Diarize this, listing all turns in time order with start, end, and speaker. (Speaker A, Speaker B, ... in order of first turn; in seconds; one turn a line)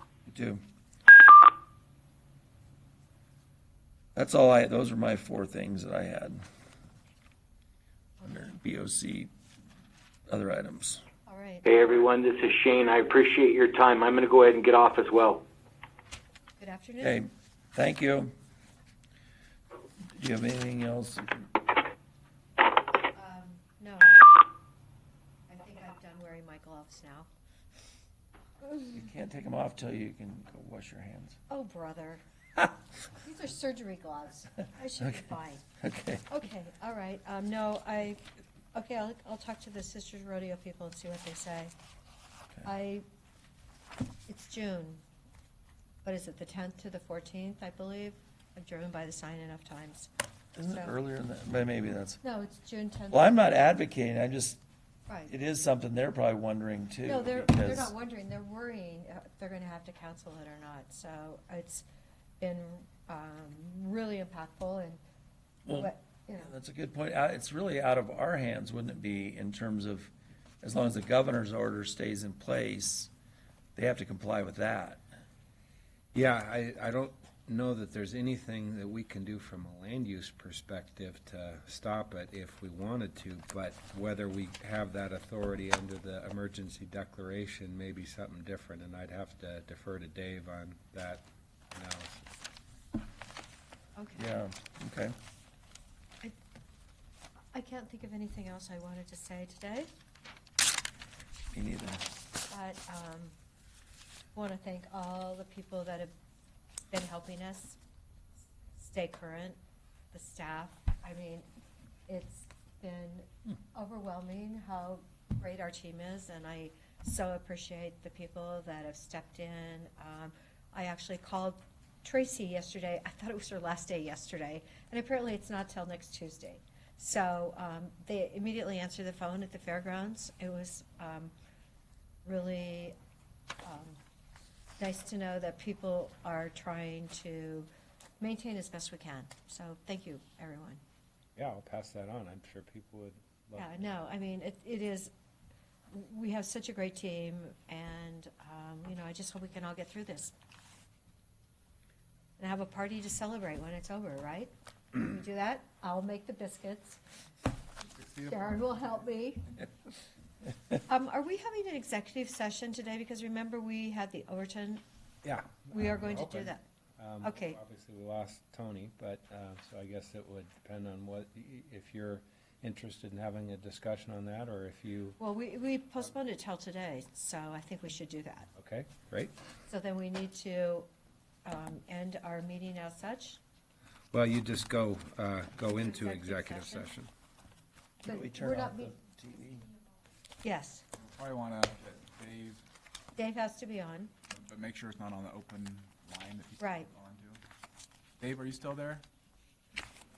Speaker A: 0.3-0.6
Speaker A: 4.2-6.4
Speaker B: 8.2-8.5
Speaker A: 8.2-9.3
Speaker A: 10.3-11.0
Speaker B: 11.3-11.7
Speaker C: 11.7-15.4
Speaker B: 16.6-17.2
Speaker A: 17.0-18.3
Speaker A: 20.1-21.3
Speaker B: 23.1-24.2
Speaker B: 25.5-27.3
Speaker A: 28.9-31.4
Speaker B: 31.5-32.2
Speaker B: 33.2-35.6
Speaker A: 35.8-36.2
Speaker B: 36.3-41.7
Speaker B: 42.6-43.0
Speaker B: 44.3-45.0
Speaker B: 46.0-50.1
Speaker A: 50.5-52.2
Speaker B: 50.7-51.0
Speaker B: 52.2-53.4
Speaker A: 53.1-54.6
Speaker B: 55.1-55.3
Speaker A: 55.3-57.9
Speaker B: 57.0-61.9
Speaker B: 62.4-65.0
Speaker A: 65.7-70.1
Speaker B: 65.7-66.5
Speaker A: 70.6-73.1
Speaker A: 73.8-75.0
Speaker D: 76.1-92.2
Speaker B: 94.0-94.3
Speaker A: 94.2-95.1
Speaker B: 97.5-99.9
Speaker A: 101.5-102.0
Speaker B: 102.5-103.3
Speaker B: 104.3-106.1
Speaker B: 106.9-107.8
Speaker B: 108.8-109.6
Speaker B: 110.1-111.5
Speaker B: 112.1-131.3
Speaker B: 132.2-132.9
Speaker B: 133.6-134.0
Speaker B: 134.8-137.7
Speaker B: 138.2-140.8
Speaker D: 141.4-143.9
Speaker B: 143.6-145.1
Speaker B: 145.9-150.3
Speaker B: 152.4-157.0
Speaker E: 157.8-158.8
Speaker B: 158.2-159.5
Speaker B: 160.9-164.8
Speaker D: 165.2-175.2
Speaker B: 165.7-166.6
Speaker B: 167.2-167.6
Speaker B: 175.2-178.5
Speaker D: 178.6-179.3
Speaker B: 179.7-180.9
Speaker B: 181.4-183.4
Speaker D: 184.1-187.1
Speaker B: 185.7-186.9
Speaker B: 188.0-188.9
Speaker A: 188.0-189.7
Speaker B: 190.4-190.8
Speaker E: 191.0-192.6
Speaker B: 193.2-194.1
Speaker E: 194.3-197.4
Speaker B: 196.6-196.9
Speaker E: 198.2-199.0